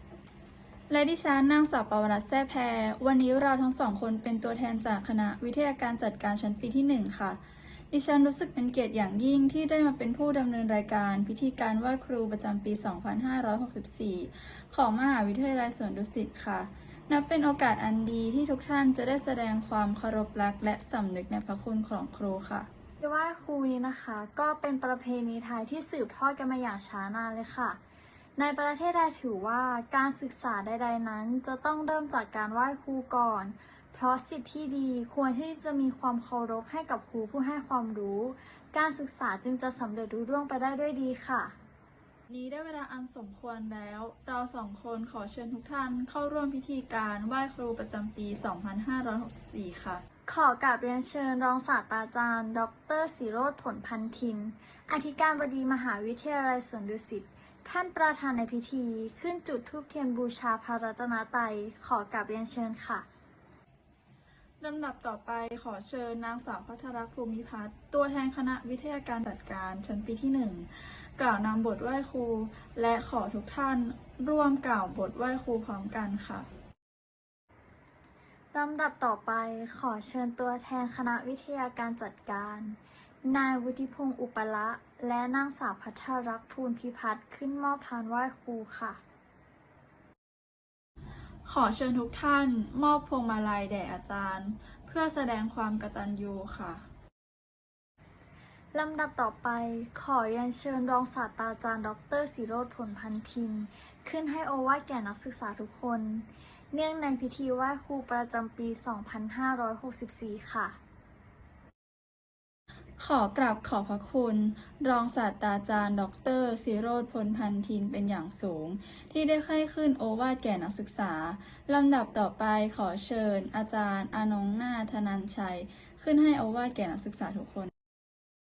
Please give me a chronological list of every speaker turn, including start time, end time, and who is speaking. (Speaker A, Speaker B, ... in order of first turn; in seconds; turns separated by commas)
Speaker A: 0.9-7.4, Speaker A: 7.9-22.7, Speaker B: 23.0-27.8, Speaker B: 28.4-41.5, Speaker A: 42.3-50.0, Speaker B: 50.3-63.1, Speaker A: 64.6-76.5, Speaker B: 78.5-89.0, Speaker A: 91.4-96.8, Speaker B: 98.7-110.8, Speaker A: 113.0-127.7